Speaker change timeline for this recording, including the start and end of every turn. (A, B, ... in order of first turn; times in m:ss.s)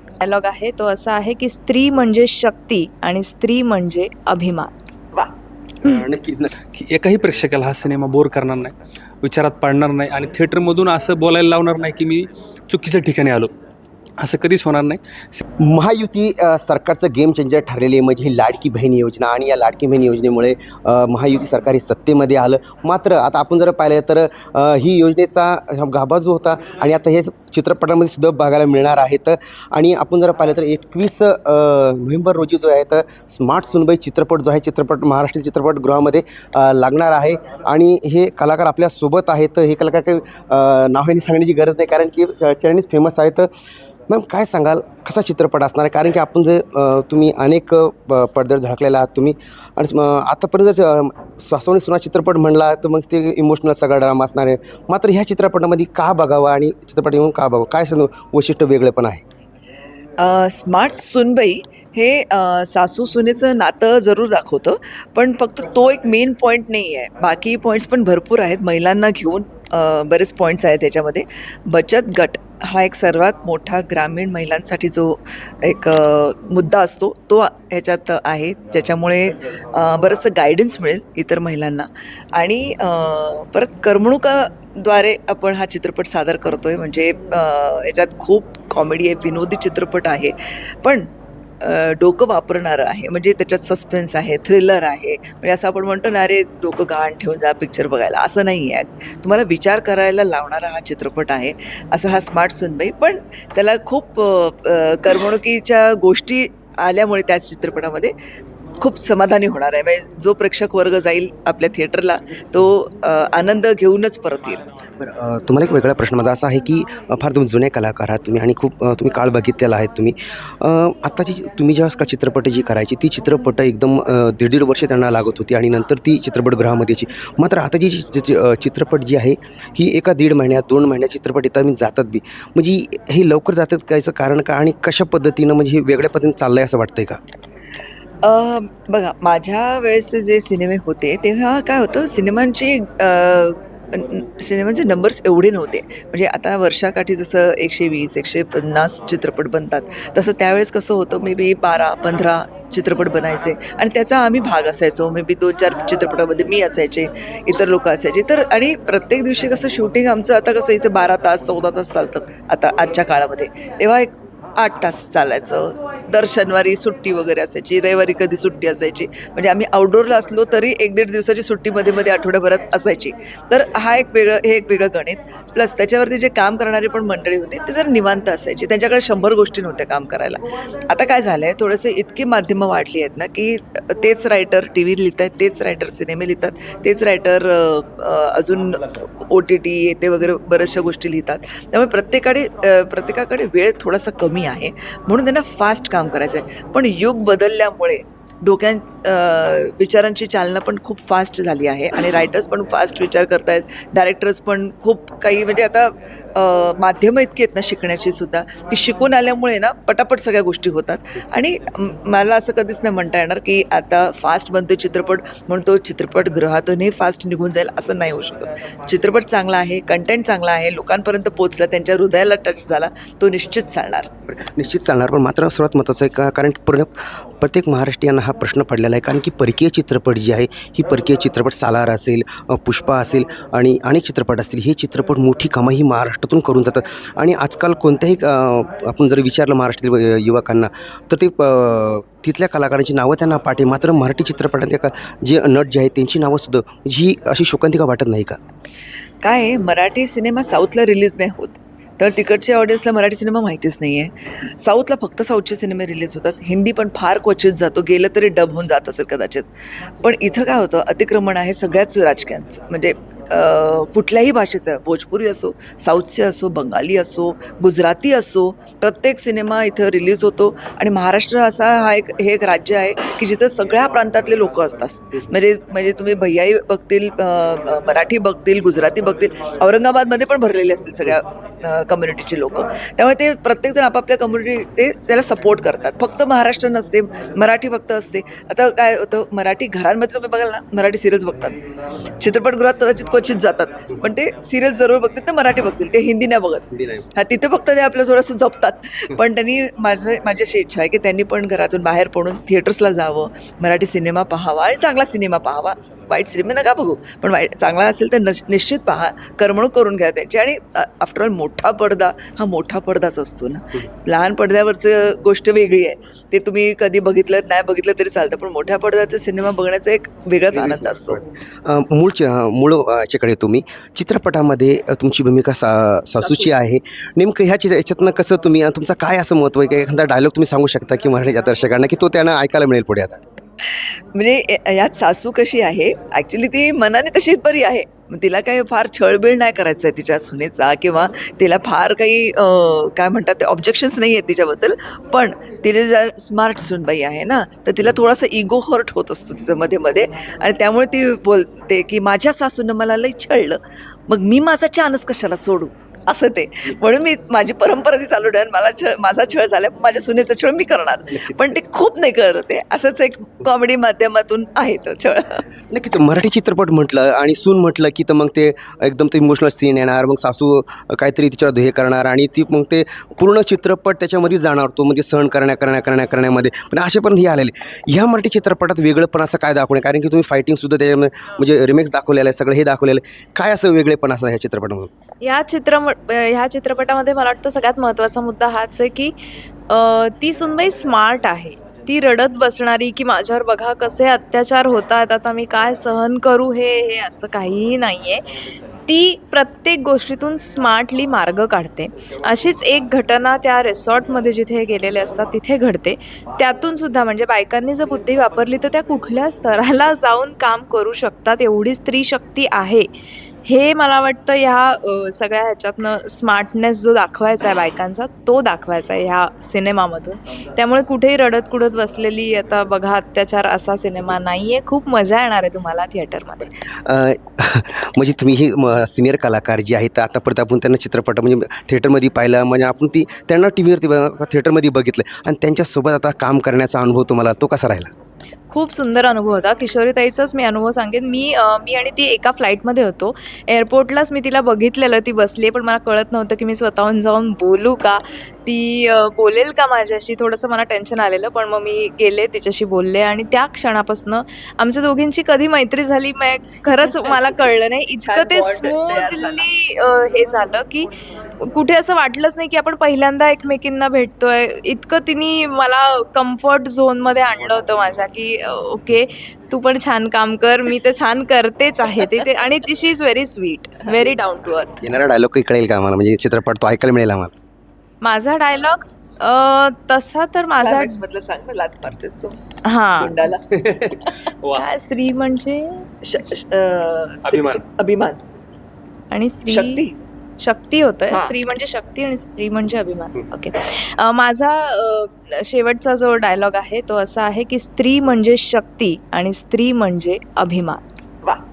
0:00.2-0:04.7 A
0:05.8-0:06.5 B
0:06.7-0:13.5 C
0:14.2-0:15.4 C
0:15.6-0:43.5 B
0:44.1-0:59.2 B
1:00.2-1:31.1 D
1:31.6-1:48.1 D
1:48.8-1:54.6 D
1:55.0-2:17.2 B
2:18.2-3:44.1 D
3:44.3-4:08.4 B
4:09.2-4:19.5 D
4:20.0-4:51.6 D
4:52.2-4:56.6 D
4:56.7-4:57.0 B
4:57.2-5:21.2 D
5:21.6-5:33.2 B
5:26.2-5:26.5 D
5:34.1-6:05.4 D
6:05.7-6:24.9 B
6:25.2-6:29.1 A
6:29.7-6:38.2 A
6:38.9-6:52.9 A
6:53.4-7:06.5 A
7:06.8-7:17.9 B
7:18.5-7:40.9 A
7:36.9-7:39.4 D
7:41.4-7:54.8 A
7:54.8-7:57.3 B
7:58.0-8:01.0 A
8:00.6-8:02.4 D
8:02.6-8:03.1 A
8:03.0-8:03.4 D
8:03.5-8:04.6 C
8:04.5-8:05.8 A
8:06.0-8:08.2 D
8:07.2-8:07.6 C
8:09.1-8:09.8 A
8:09.5-8:09.9 D
8:10.4-8:20.8 A